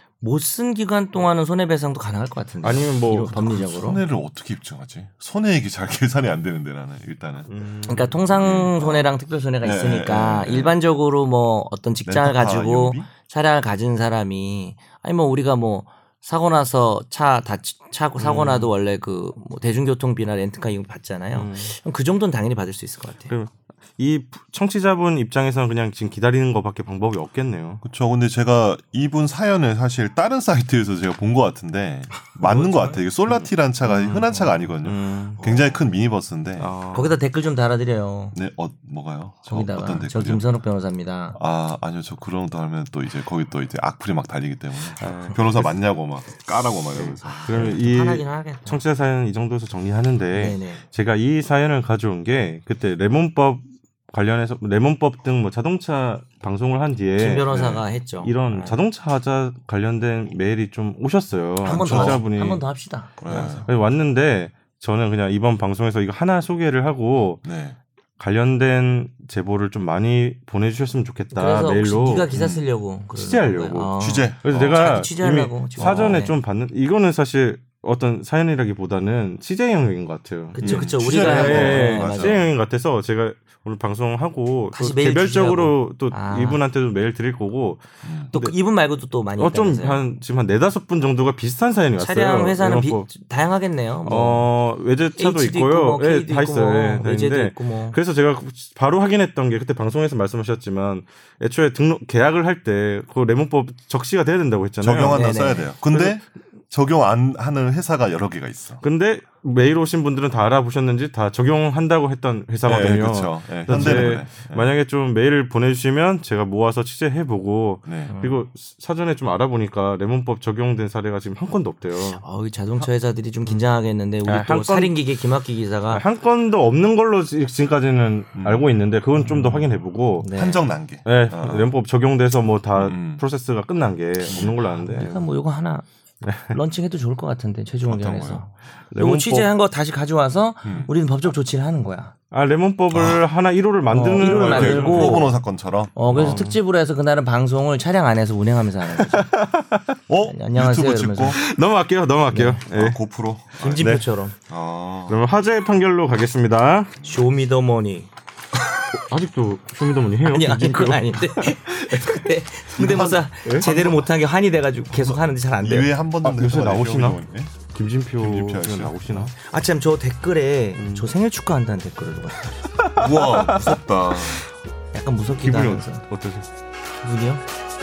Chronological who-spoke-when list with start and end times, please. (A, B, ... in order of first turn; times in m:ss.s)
0:00.2-0:04.0 A
0:02.6-0:03.3 B
0:03.2-0:07.5 C
0:07.5-0:08.2 B
0:07.8-0:23.3 A
0:08.0-0:10.8 C
0:12.0-0:13.1 C
0:18.2-0:18.7 B
0:21.3-0:21.7 B
0:23.3-0:27.8 B
0:27.8-0:36.7 C
0:32.3-0:34.3 B
0:34.2-0:34.6 A
0:34.8-0:35.9 B
0:36.6-0:37.2 B
0:36.9-0:38.4 A
0:38.3-0:40.5 C
0:39.5-0:41.4 A
0:41.3-0:47.8 C
0:45.0-0:45.8 B
0:46.9-1:02.6 B
0:47.2-0:48.8 A
0:50.3-0:50.8 A
0:57.2-0:58.8 A
1:01.6-1:03.7 A
1:01.6-1:02.2 C
1:03.2-1:03.7 C
1:03.2-1:07.4 B
1:07.4-1:07.8 C
1:08.2-1:12.3 B
1:11.3-1:16.4 A
1:12.3-1:12.7 C
1:13.1-1:28.6 B
1:14.0-1:15.1 C
1:20.5-1:22.4 A
1:20.6-1:22.5 C
1:24.7-1:26.6 A
1:28.0-1:28.3 C
1:28.3-1:30.1 A
1:29.4-1:33.1 B
1:32.0-1:34.5 A
1:34.0-1:45.3 B
1:35.1-1:38.0 A
1:44.8-1:48.8 C
1:45.1-1:45.7 A
1:45.9-1:46.2 B
1:48.8-2:02.2 B
1:52.6-1:54.7 C
1:53.7-1:54.2 A
1:57.8-1:58.2 C
1:58.1-1:58.4 A
2:02.0-2:06.0 A
2:04.2-2:05.0 B
2:05.9-2:10.3 B
2:08.4-2:08.7 C
2:09.2-2:09.6 C
2:10.2-2:10.7 A
2:10.3-2:11.7 C
2:11.0-2:15.2 B
2:12.8-2:13.2 C
2:14.3-2:14.8 C
2:14.9-2:15.8 A
2:16.2-2:16.6 B
2:16.5-2:22.1 A
2:17.8-2:18.4 C
2:18.9-2:19.5 B
2:20.6-2:20.9 C
2:22.3-2:25.3 B
2:23.9-2:25.3 A
2:24.3-2:26.4 C
2:26.0-2:29.3 A
2:26.0-2:26.6 B
2:29.0-2:29.8 B
2:30.1-2:31.4 C
2:30.2-2:31.4 A
2:31.2-2:33.0 B
2:32.3-2:32.6 A
2:32.7-2:35.2 C
2:33.6-2:34.4 A
2:35.1-2:36.9 B
2:37.0-2:38.1 A
2:38.9-2:41.9 B
2:40.2-2:45.9 A
2:42.7-2:43.7 B
2:42.8-2:44.0 C
2:44.9-2:47.5 C
2:46.2-2:49.3 B
2:48.2-2:49.3 C
2:49.4-2:52.6 A
2:50.8-2:51.1 B
2:52.8-2:54.4 B
2:53.0-2:54.4 C
2:54.9-2:56.0 A
2:55.4-2:56.5 B
2:57.0-2:57.4 A